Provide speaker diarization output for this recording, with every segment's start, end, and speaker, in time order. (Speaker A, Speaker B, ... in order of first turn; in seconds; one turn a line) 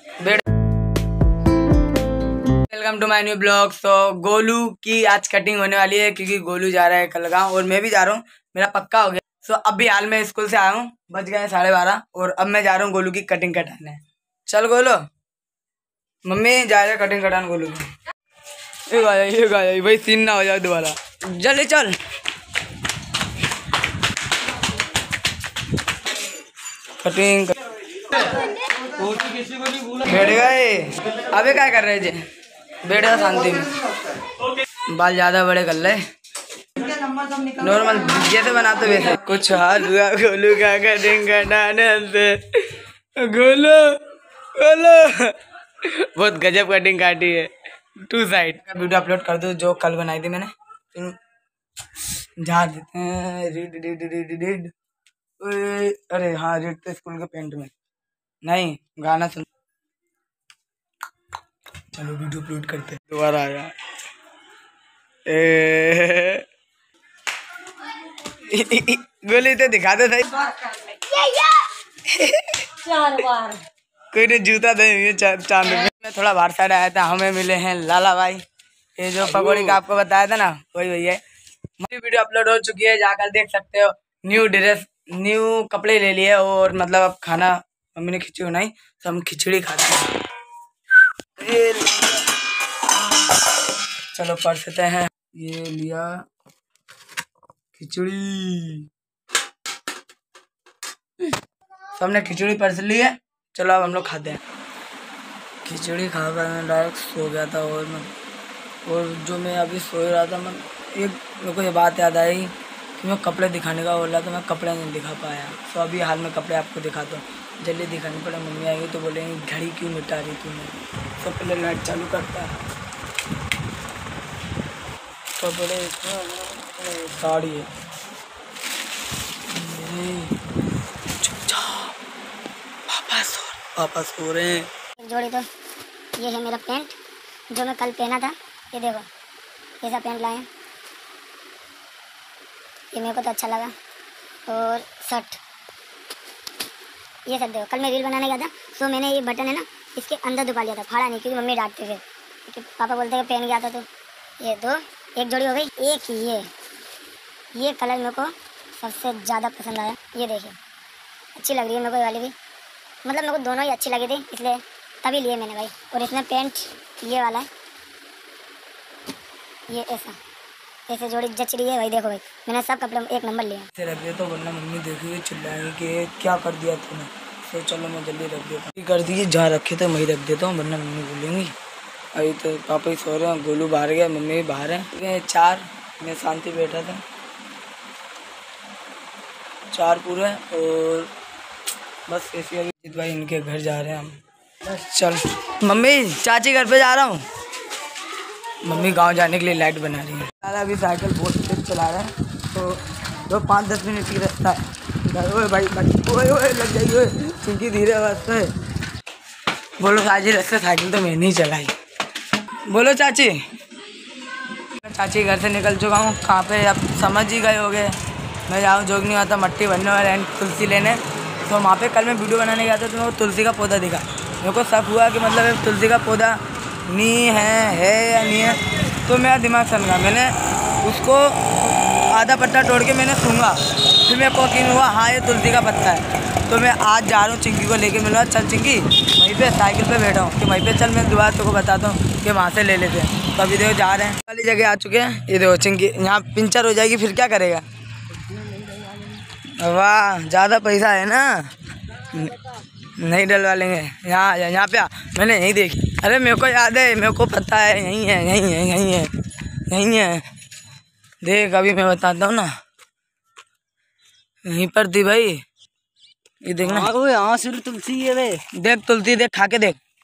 Speaker A: 2.7-15.0
Speaker A: 16.2-17.9
Speaker A: 18.9-22.0
Speaker A: 27.0-27.6
Speaker A: 28.1-28.4
Speaker B: 29.1-29.7
Speaker A: 29.9-32.2
Speaker A: 32.8-33.8
Speaker A: 34.9-36.0
Speaker A: 37.4-51.2
Speaker A: 52.4-54.7
Speaker A: 55.4-57.7
Speaker A: 58.4-59.5
Speaker A: 61.9-63.8
Speaker A: 65.3-66.5
Speaker A: 68.2-70.5
Speaker C: 71.2-71.6
Speaker A: 72.0-73.6
Speaker A: 74.1-78.4
Speaker A: 79.0-81.2
Speaker A: 81.8-90.1
Speaker A: 91.4-92.3
Speaker A: 94.1-96.3
Speaker A: 97.8-98.9
Speaker A: 101.9-104.4
Speaker A: 105.7-108.1
Speaker A: 108.8-122.6
Speaker A: 125.4-127.7
Speaker A: 129.5-130.4
Speaker A: 131.2-131.9
Speaker A: 132.9-134.7
Speaker C: 135.0-135.4
Speaker C: 136.2-137.0
Speaker C: 137.5-139.1
Speaker C: 139.8-140.5
Speaker C: 142.9-143.7
Speaker C: 144.5-145.4
Speaker C: 147.3-153.9
Speaker C: 154.4-156.5
Speaker C: 157.6-160.6
Speaker C: 161.3-162.3
Speaker C: 163.0-167.5
Speaker C: 169.7-170.2
Speaker C: 170.9-173.7
Speaker A: 173.8-181.6
Speaker A: 182.1-187.0
Speaker A: 189.7-191.1
Speaker A: 192.1-197.2
Speaker A: 198.6-208.5
Speaker A: 209.8-211.8
Speaker A: 212.7-213.4
Speaker A: 214.7-231.5
Speaker A: 232.1-247.7
Speaker B: 248.3-249.0
Speaker A: 249.6-260.3
Speaker A: 261.2-262.5
Speaker A: 264.4-265.4
Speaker A: 266.4-266.9
Speaker B: 266.6-268.4
Speaker A: 268.5-269.8